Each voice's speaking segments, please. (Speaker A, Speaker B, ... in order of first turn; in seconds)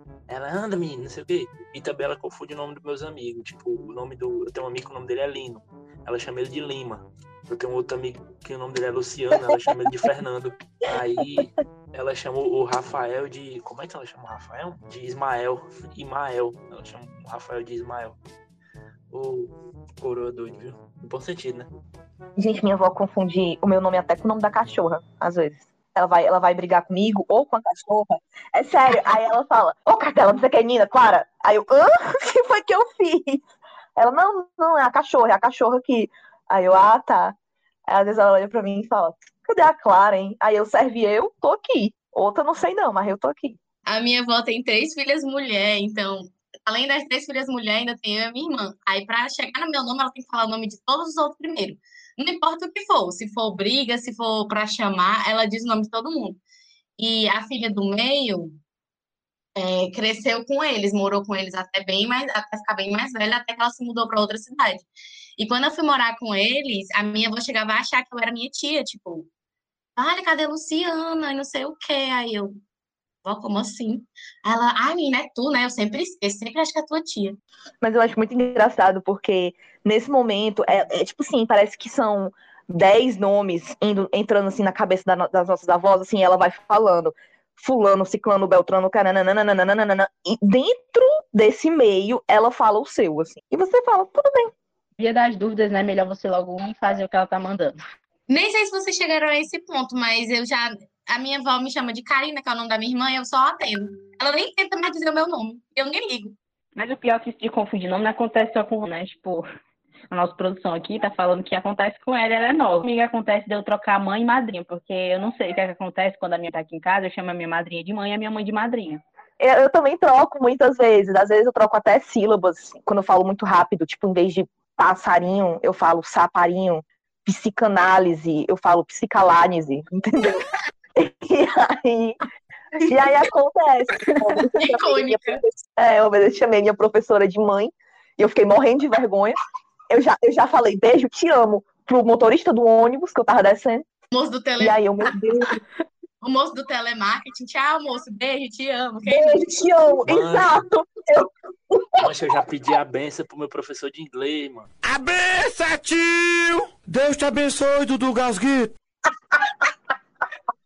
Speaker A: 0.3-18.2, 19.1-21.7, 150.1-150.6, 152.0-154.7
Speaker B: 22.4-33.4, 34.0-37.4, 37.9-43.6, 77.8-94.5, 119.4-132.2, 132.8-139.3, 139.9-143.9, 144.6-145.6, 149.1-152.0
Speaker C: 43.9-56.4, 57.0-58.6, 59.5-69.3, 70.0-72.6, 73.2-77.4, 98.3-106.3, 134.7-135.4, 144.1-144.8, 146.2-149.4
Speaker D: 95.0-97.7, 107.1-109.3, 110.1-119.0
Speaker E: 154.8-158.7